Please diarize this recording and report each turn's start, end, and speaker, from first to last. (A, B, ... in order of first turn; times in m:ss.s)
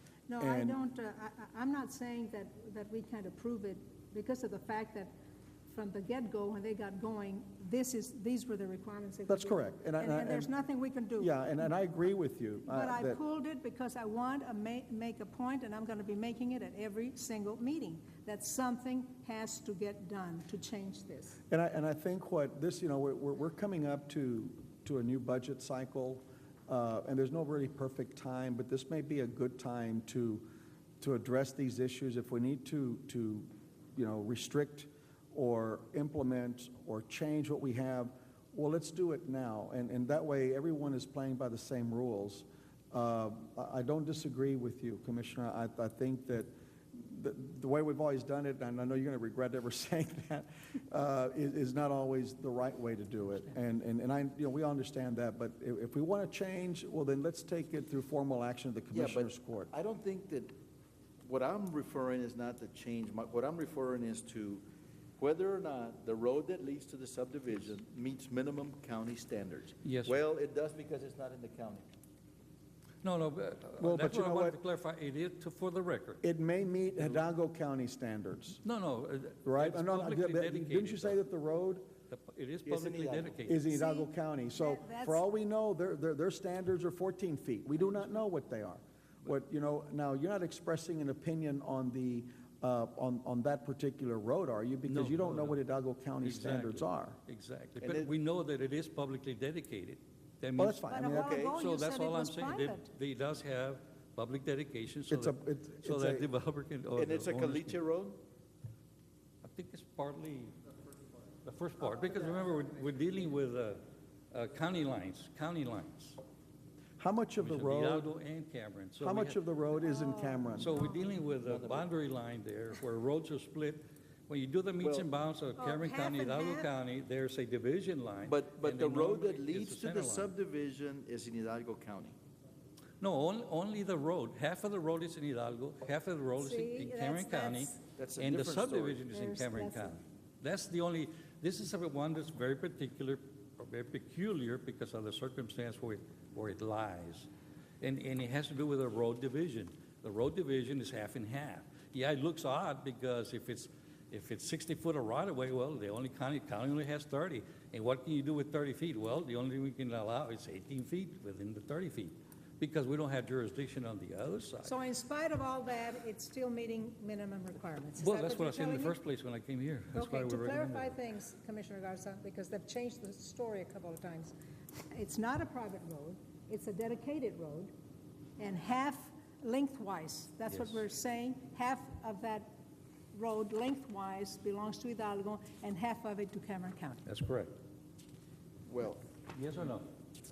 0:00.3-0:05.1 A
0:00.4-0:00.8 B
0:05.7-0:11.3 A
0:09.3-0:10.5 B
0:11.1-0:13.2 B
0:12.6-0:21.4 A
0:21.5-0:30.5 B
0:31.0-0:59.7 B
0:58.9-1:00.5 C
1:01.2-1:04.6 C
1:05.2-1:11.8 C
1:09.8-1:10.2 D
1:13.0-1:16.2 D
1:13.8-1:14.6 B
1:16.2-1:18.6 B
1:18.6-1:21.2 D
1:19.4-1:21.9 B
1:22.1-1:23.8 D
1:22.6-1:23.4 C
1:23.5-1:37.2 B
1:23.7-1:25.2 A
1:34.9-1:35.6 D
1:36.2-1:47.8 D
1:37.8-1:38.1 C
1:40.6-1:41.3 B
1:40.9-1:42.9 A
1:41.2-1:41.5 C
1:45.1-1:46.3 B
1:46.9-1:48.2 C
1:49.4-1:50.5 D
1:51.4-1:56.2 D
1:57.0-1:58.1 B
1:57.4-1:59.4 D
1:59.0-2:00.8 B
1:59.8-2:01.0 A
2:00.6-2:10.3 D
2:01.4-2:01.9 C
2:04.8-2:05.1 C
2:05.6-2:06.7 A
2:08.2-2:12.2 C
2:13.0-2:44.7 D
2:16.4-2:17.8 A
2:18.0-2:19.0 C
2:19.1-2:20.0 A
2:44.6-2:49.0 A
2:48.0-2:51.0 D
2:49.9-2:54.3 A
2:54.9-2:57.7 A
2:58.4-3:02.5 A
3:00.5-3:00.8 D
3:03.1-3:07.0 A
3:07.0-3:07.5 D
3:08.6-3:09.0 C
3:09.3-3:09.9 D